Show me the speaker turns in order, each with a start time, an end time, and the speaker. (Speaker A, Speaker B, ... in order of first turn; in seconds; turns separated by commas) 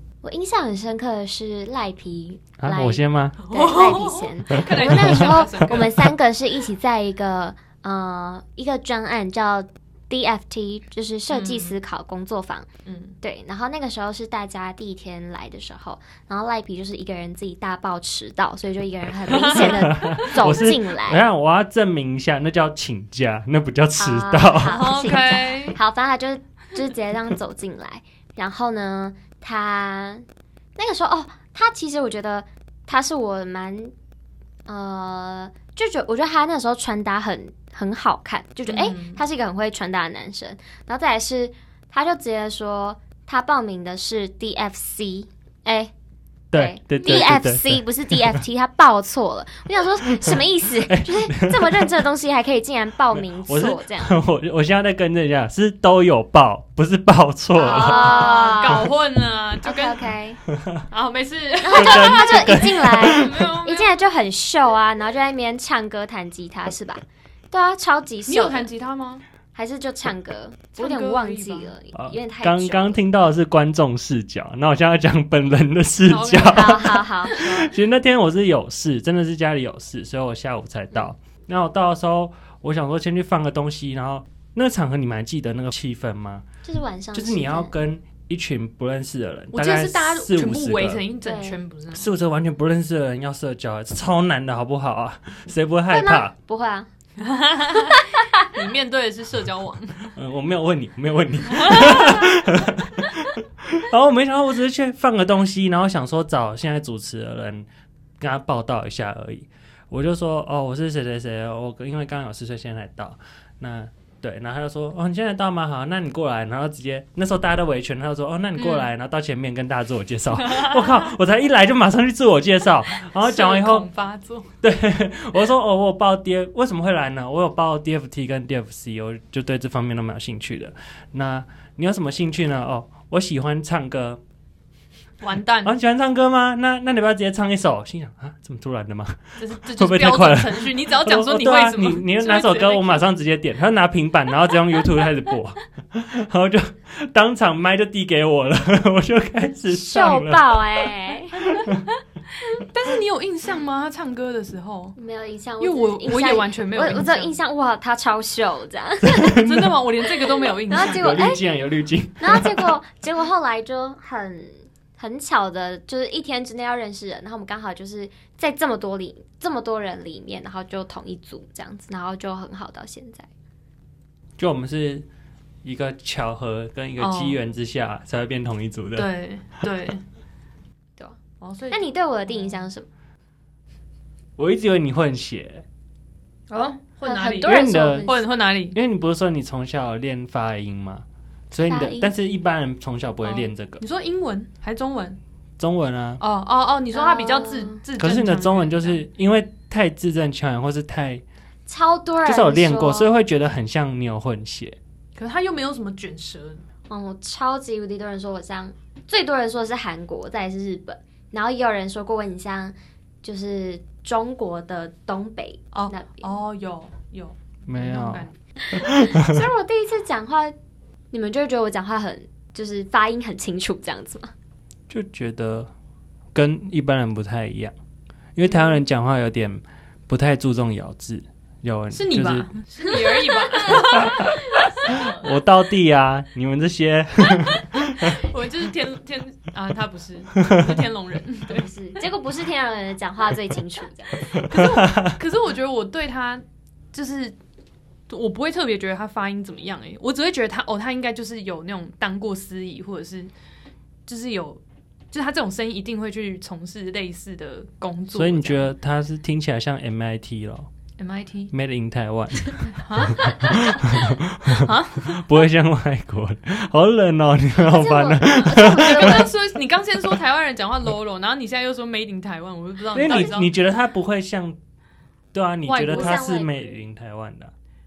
Speaker A: 0.2-12.7, Speaker B: 2.6-3.4, Speaker C: 3.4-6.0, Speaker B: 4.8-5.9, Speaker C: 11.3-11.8, Speaker C: 12.8-13.2, Speaker A: 13.2-21.2, Speaker C: 19.3-20.5, Speaker B: 19.5-24.9, Speaker A: 24.0-30.2, Speaker C: 24.7-25.8, Speaker A: 30.8-33.9, Speaker A: 34.7-45.9, Speaker C: 38.7-39.2, Speaker B: 46.5-48.4, Speaker A: 46.5-54.2, Speaker B: 50.1-52.0, Speaker B: 53.1-58.3, Speaker A: 57.5-58.9, Speaker C: 57.6-60.1, Speaker A: 59.6-60.4, Speaker B: 60.5-60.8, Speaker C: 60.9-62.5, Speaker A: 61.7-68.7, Speaker B: 61.7-63.5, Speaker C: 63.1-64.0, Speaker C: 68.3-69.2, Speaker A: 69.5-73.0, Speaker C: 70.8-71.7, Speaker B: 71.9-86.5, Speaker C: 76.1-77.7, Speaker A: 76.4-77.7, Speaker A: 86.7-87.8, Speaker B: 87.1-91.0, Speaker C: 89.5-92.1, Speaker A: 91.2-91.6, Speaker B: 91.9-96.3, Speaker A: 95.9-96.9, Speaker C: 97.2-100.1, Speaker A: 97.8-98.4, Speaker B: 100.2-107.7, Speaker C: 101.5-102.2, Speaker B: 108.2-123.9, Speaker C: 118.6-118.9, Speaker C: 120.4-120.9, Speaker C: 123.1-124.5, Speaker B: 124.6-134.2, Speaker C: 135.2-135.7, Speaker B: 135.6-150.6, Speaker C: 139.4-143.1, Speaker A: 149.7-151.6, Speaker B: 151.4-151.8, Speaker C: 152.4-155.0, Speaker A: 155.0-159.5, Speaker C: 155.6-157.3, Speaker C: 159.2-161.1, Speaker B: 159.2-159.8, Speaker A: 160.2-161.4, Speaker B: 160.8-162.8, Speaker A: 162.2-173.3, Speaker B: 174.4-175.1, Speaker B: 175.6-179.1, Speaker C: 177.0-177.4, Speaker C: 178.9-180.0, Speaker C: 181.4-182.7, Speaker A: 181.7-182.9, Speaker B: 184.4-185.6, Speaker C: 186.5-188.8, Speaker A: 187.0-188.2, Speaker B: 187.4-188.1, Speaker B: 188.7-193.8, Speaker A: 191.5-192.1, Speaker C: 193.2-195.2, Speaker B: 195.6-196.2, Speaker C: 196.2-199.0, Speaker A: 196.9-197.8, Speaker B: 198.0-201.2, Speaker A: 201.7-203.1, Speaker B: 202.2-204.8, Speaker C: 205.2-206.7, Speaker A: 206.9-216.4, Speaker C: 215.7-218.4, Speaker B: 217.7-219.4, Speaker A: 218.6-220.6, Speaker A: 221.1-224.3, Speaker B: 224.9-225.7, Speaker B: 226.3-227.8, Speaker B: 228.3-232.5, Speaker C: 231.9-235.3, Speaker B: 233.7-238.2, Speaker C: 237.2-242.0, Speaker B: 240.4-240.8, Speaker A: 241.5-244.3, Speaker C: 244.2-247.3, Speaker B: 244.4-245.2, Speaker C: 248.1-253.3, Speaker C: 254.1-258.8, Speaker B: 258.1-260.7, Speaker C: 261.0-261.5, Speaker B: 261.5-269.3, Speaker C: 262.8-263.7, Speaker C: 264.6-265.4, Speaker A: 267.6-269.3, Speaker C: 268.5-273.6, Speaker B: 272.9-274.6, Speaker A: 273.0-273.4, Speaker B: 275.3-277.5, Speaker C: 275.7-276.3, Speaker A: 275.9-276.7